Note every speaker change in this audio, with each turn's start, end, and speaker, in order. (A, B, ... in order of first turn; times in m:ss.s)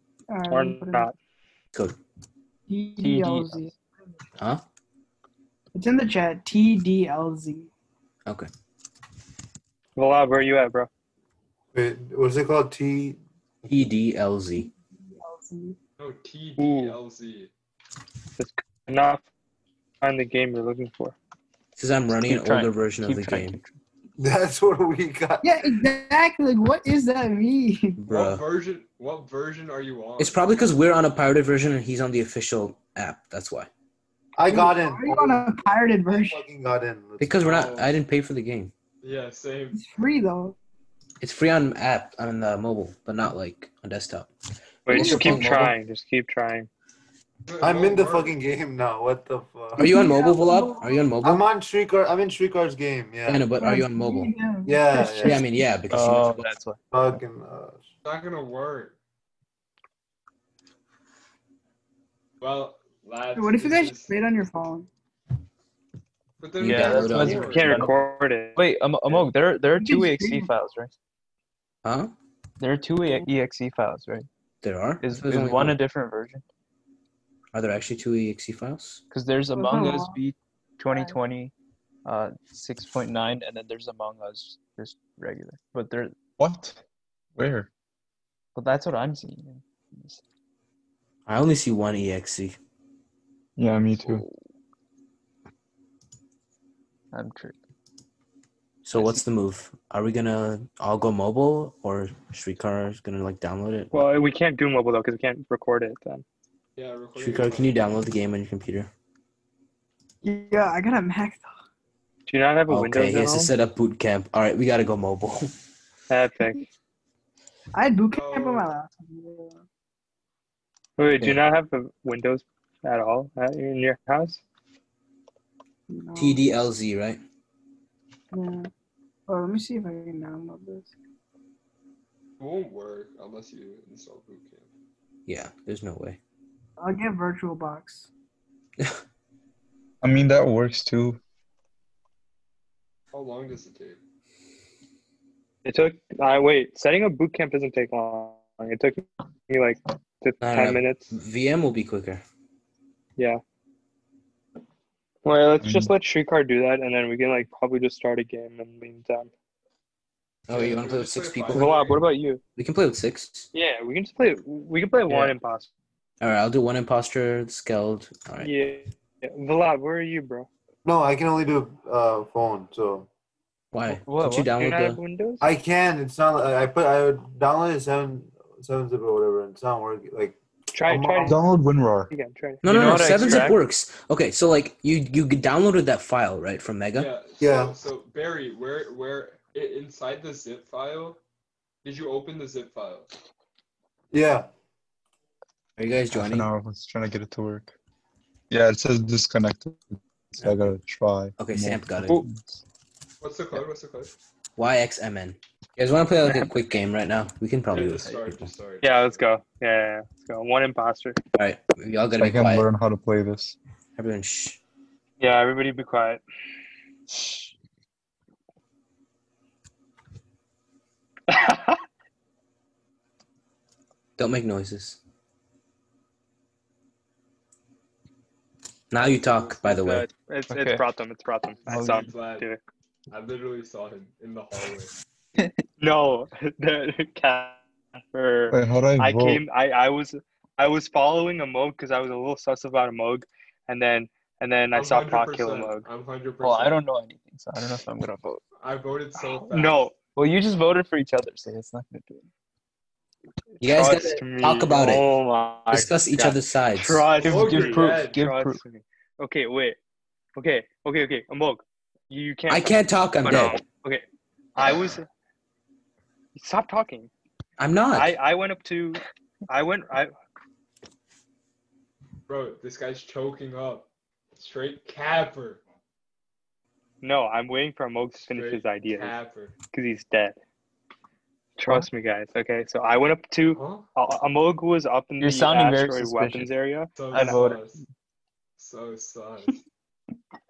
0:00.3-0:01.1 A
0:00.5-0:01.2 B
0:02.7-0:04.2 A
0:03.0-0:03.6 C
0:04.4-0:04.6 D
0:05.8-0:07.7 A
0:10.0-0:10.9 B
0:11.7-0:13.2 E
0:13.6-0:14.7 D
0:15.1-0:15.8 A
0:16.0-0:17.5 F
0:16.6-0:17.0 B
0:18.4-0:19.3 B
0:20.0-0:21.2 B
0:21.8-0:23.6 D
0:22.1-0:23.8 C
0:24.2-0:25.7 E
0:25.4-0:28.0 A
0:28.0-0:28.4 D
0:28.1-0:30.7 F
0:30.2-0:33.7 D
0:34.4-0:35.6 E
0:34.4-0:36.4 A
0:36.1-0:37.7 E
0:37.2-0:38.7 D
0:37.4-0:37.9 F
0:39.0-0:39.8 F
0:39.7-0:40.6 A
0:41.2-0:44.3 D
0:44.9-0:46.7 B
0:44.9-0:45.6 A
0:44.9-0:45.7 D
0:47.5-0:48.4 F
0:47.6-0:50.0 E
0:49.8-0:51.4 D
0:49.8-0:51.1 A
0:51.2-0:53.5 E
0:53.3-0:54.4 D
0:53.6-0:55.4 A
0:54.6-0:55.4 E
0:55.2-0:56.5 D
0:55.9-0:56.8 C
0:56.9-0:57.8 E
0:58.0-0:59.0 F
1:02.4-1:04.2 F
1:03.4-1:04.9 A
1:06.4-1:08.0 F
1:06.6-1:07.7 D
1:06.6-1:08.0 C
1:07.2-1:08.6 B
1:08.6-1:10.9 C
1:09.7-1:10.5 A
1:11.8-1:12.1 D
1:12.6-1:14.3 C
1:14.6-1:15.8 D
1:15.0-1:16.4 C
1:17.5-1:19.0 D
1:19.1-1:21.5 C
1:19.5-1:20.2 A
1:20.9-1:21.2 A
1:22.0-1:26.2 C
1:26.4-1:26.8 G
1:27.4-1:27.7 G
1:28.6-1:30.2 C
1:31.3-1:32.6 D
1:33.6-1:34.2 G
1:37.1-1:37.6 C
1:38.8-1:44.1 D
1:39.0-1:39.2 C
1:43.9-1:46.2 B
1:46.8-1:47.8 F
1:47.2-1:48.9 D
1:50.2-1:51.5 A
1:52.3-1:53.5 B
1:52.7-1:55.5 D
1:56.1-1:56.6 B
1:57.7-1:59.6 A
1:58.1-1:58.7 F
2:01.0-2:04.4 B
2:05.9-2:06.7 A
2:06.2-2:07.2 D
2:08.3-2:08.7 A
2:09.3-2:10.9 A
2:12.4-2:14.7 F
2:15.3-2:16.2 D
2:16.8-2:18.1 A
2:20.0-2:21.2 G
2:23.1-2:24.0 F
2:25.6-2:31.1 B
2:30.4-2:32.2 D
2:35.2-2:39.3 B
2:35.6-2:35.9 G
2:40.5-2:41.8 D
2:40.5-2:42.0 F
2:41.5-2:42.4 B
2:42.6-2:43.5 D
2:43.5-2:45.7 B
2:45.1-2:45.4 C
2:46.2-2:48.8 D
2:48.4-2:50.5 B
2:50.8-2:53.1 E
2:53.7-2:55.0 D
2:53.9-2:54.7 C
2:54.6-2:55.4 B
2:55.4-3:01.5 E
3:00.7-3:01.4 B
3:01.2-3:02.1 G
3:02.1-3:02.7 B
3:02.6-3:07.1 D
3:02.6-3:03.6 C
3:02.7-3:03.6 F
3:06.9-3:11.2 F
3:07.4-3:07.8 E
3:11.8-3:13.1 F
3:14.1-3:14.5 E
3:15.8-3:16.5 D
3:16.1-3:17.8 G
3:18.5-3:22.4 G
3:21.4-3:22.2 D
3:23.2-3:24.1 F
3:24.6-3:28.5 D
3:27.7-3:29.2 F
3:28.8-3:31.2 B
3:31.4-3:32.7 D
3:32.2-3:33.6 G
3:34.0-3:34.6 D
3:35.2-3:36.2 B
3:41.3-3:41.8 B
3:44.2-3:45.0 D
3:48.9-3:50.1 D
3:49.0-3:49.5 F
3:49.8-3:52.6 B
3:50.5-3:50.8 C
3:51.7-3:52.1 C
3:51.7-3:52.5 F
3:53.1-3:54.9 F
3:55.8-4:05.9 B
3:58.5-3:59.4 G
4:04.7-4:06.8 F
4:06.4-4:08.4 C
4:08.6-4:09.9 F
4:09.5-4:09.9 B
4:10.2-4:12.3 C
4:13.6-4:19.8 B
4:13.6-4:15.1 D
4:15.7-4:17.1 D
4:17.2-4:18.6 C
4:17.2-4:18.2 F
4:20.4-4:24.0 B
4:22.5-4:23.6 D
4:24.6-4:25.1 B
4:26.4-4:27.1 B
4:27.6-4:28.1 D
4:27.9-4:30.1 B
4:32.3-4:35.6 F
4:37.0-4:39.2 B
4:38.3-4:39.6 F
4:39.7-4:40.4 B
4:41.6-4:47.4 B
4:43.5-4:43.9 F
4:45.2-4:46.5 C
4:47.0-4:47.8 F
4:47.1-4:47.7 C
4:48.6-4:49.6 F